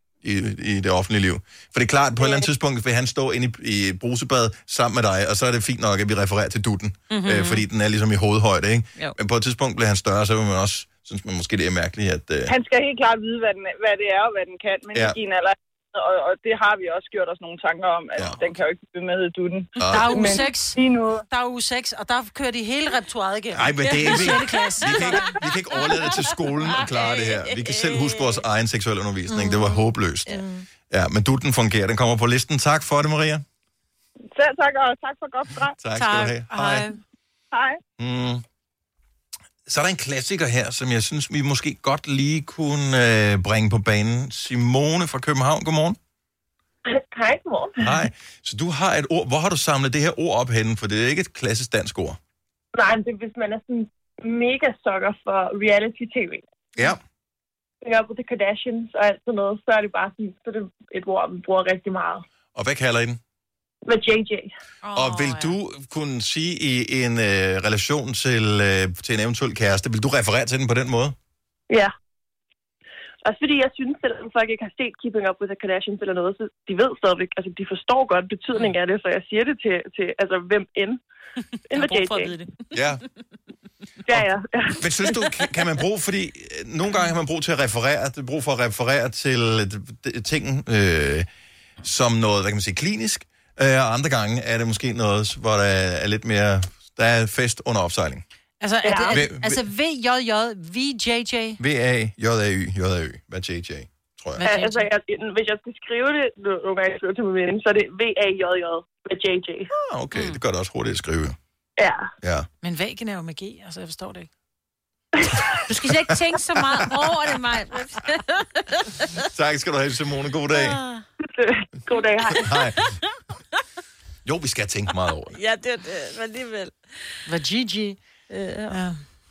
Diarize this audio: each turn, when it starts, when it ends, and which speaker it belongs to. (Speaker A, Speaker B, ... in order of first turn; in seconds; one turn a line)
Speaker A: 0.2-12.5
Speaker B: 7.1-7.7
Speaker C: 12.5-21.2
Speaker A: 18.2-18.6
Speaker A: 19.8-20.3
Speaker D: 19.9-25.4
Speaker A: 23.6-33.4
Speaker B: 23.8-24.3
Speaker B: 26.6-28.4
Speaker D: 29.3-30.6
Speaker C: 34.4-35.8
Speaker A: 35.8-36.9
Speaker D: 36.0-37.0
Speaker C: 37.5-37.8
Speaker A: 38.0-38.4
Speaker A: 39.7-46.0
Speaker E: 46.9-48.0
Speaker A: 47.8-52.2
Speaker E: 52.8-56.4
Speaker E: 57.8-62.2
Speaker A: 62.5-63.2
Speaker E: 63.9-64.5
Speaker B: 64.8-65.6
Speaker A: 64.9-71.2
Speaker E: 73.2-81.0
Speaker E: 81.7-82.3
Speaker B: 81.7-82.7
Speaker A: 82.7-83.0
Speaker E: 84.1-84.8
Speaker A: 84.8-91.3
Speaker A: 91.8-98.2
Speaker D: 98.6-101.6
Speaker E: 98.8-99.2
Speaker A: 99.1-99.6
Speaker A: 101.6-104.5
Speaker D: 104.4-104.9
Speaker E: 104.4-109.7
Speaker A: 109.7-111.4
Speaker B: 110.1-110.4
Speaker E: 111.8-112.1
Speaker A: 112.2-112.5
Speaker D: 112.6-114.3
Speaker E: 115.2-115.6
Speaker B: 115.7-119.1
Speaker A: 119.3-120.8
Speaker B: 120.5-121.0
Speaker E: 121.2-122.5
Speaker A: 122.3-123.0
Speaker A: 124.2-125.4
Speaker B: 125.3-126.8
Speaker D: 127.3-128.0
Speaker B: 128.3-128.8
Speaker D: 128.7-129.0